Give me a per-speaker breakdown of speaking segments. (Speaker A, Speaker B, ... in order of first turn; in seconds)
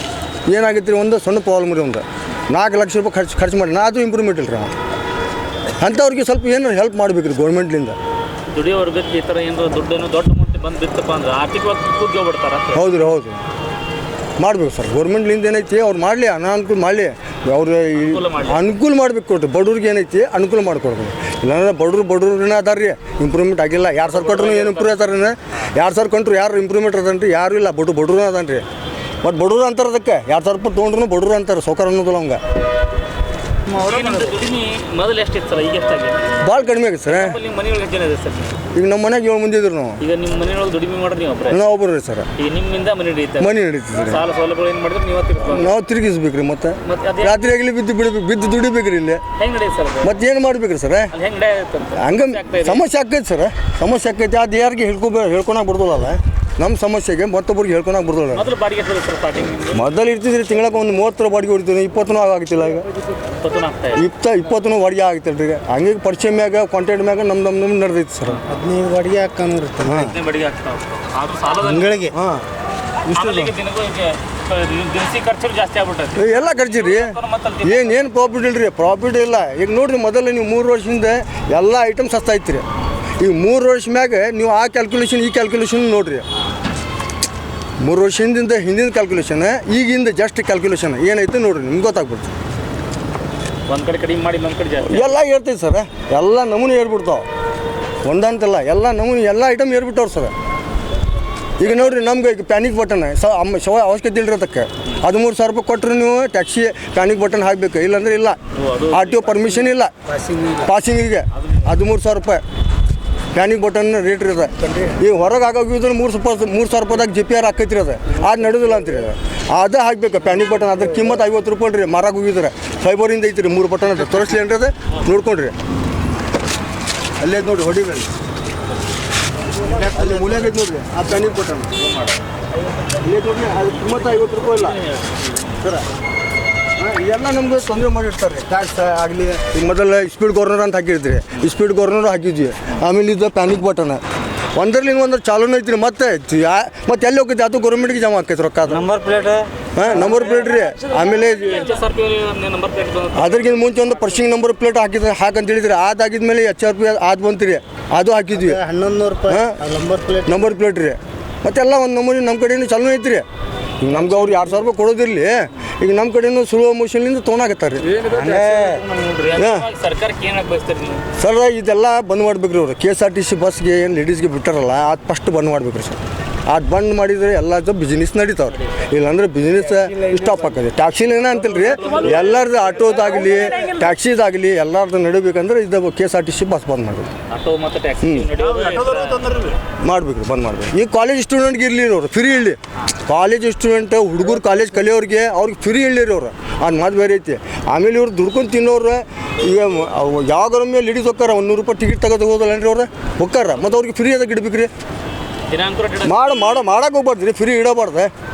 Speaker A: 0.5-4.7, 5.8-8.0, 12.7-13.4, 14.4-28.6, 29.2-32.4, 36.4-37.4, 38.7-40.0, 41.5-42.3, 43.4-44.2, 45.4-49.2, 50.0-51.1, 51.9-58.5, 59.7-62.9, 64.0-68.4, 69.8-70.2, 72.1-72.5, 76.1-82.6, 83.2-86.2, 87.8-92.3, 94.8-97.2, 98.0-100.3, 101.6-108.4, 108.9-109.9, 110.6-112.4, 113.3-125.5, 127.2-128.1, 129.6-131.9, 133.0-134.8, 136.8-144.0, 144.5-148.9, 149.7-151.7, 153.1-158.6, 159.3-159.6, 160.2-163.2, 163.8-168.8, 169.3-169.7, 171.2-187.1, 188.0-188.3, 189.8-204.7, 206.0-208.1
Speaker B: 8.5-12.9, 17.9-18.7, 24.0-25.0, 33.7-36.5, 37.1-38.6, 40.0-41.6, 42.4-45.7, 46.8-47.4, 49.3-50.1, 51.1-52.8, 58.3-59.8, 63.3-64.0, 69.8-72.1, 73.0-78.2, 93.7-95.2, 108.5-109.7, 131.8-132.1, 133.8-135.3, 151.3-153.8, 169.2-171.0, 181.8-182.2, 187.3-189.3, 205.5-206.3
Speaker C: 68.4-70.1, 71.6-72.2, 73.1-73.4, 110.1-110.7, 129.7-130.4, 148.7-150.2, 158.3-160.5, 167.9-169.3, 179.8-180.4, 188.5-189.6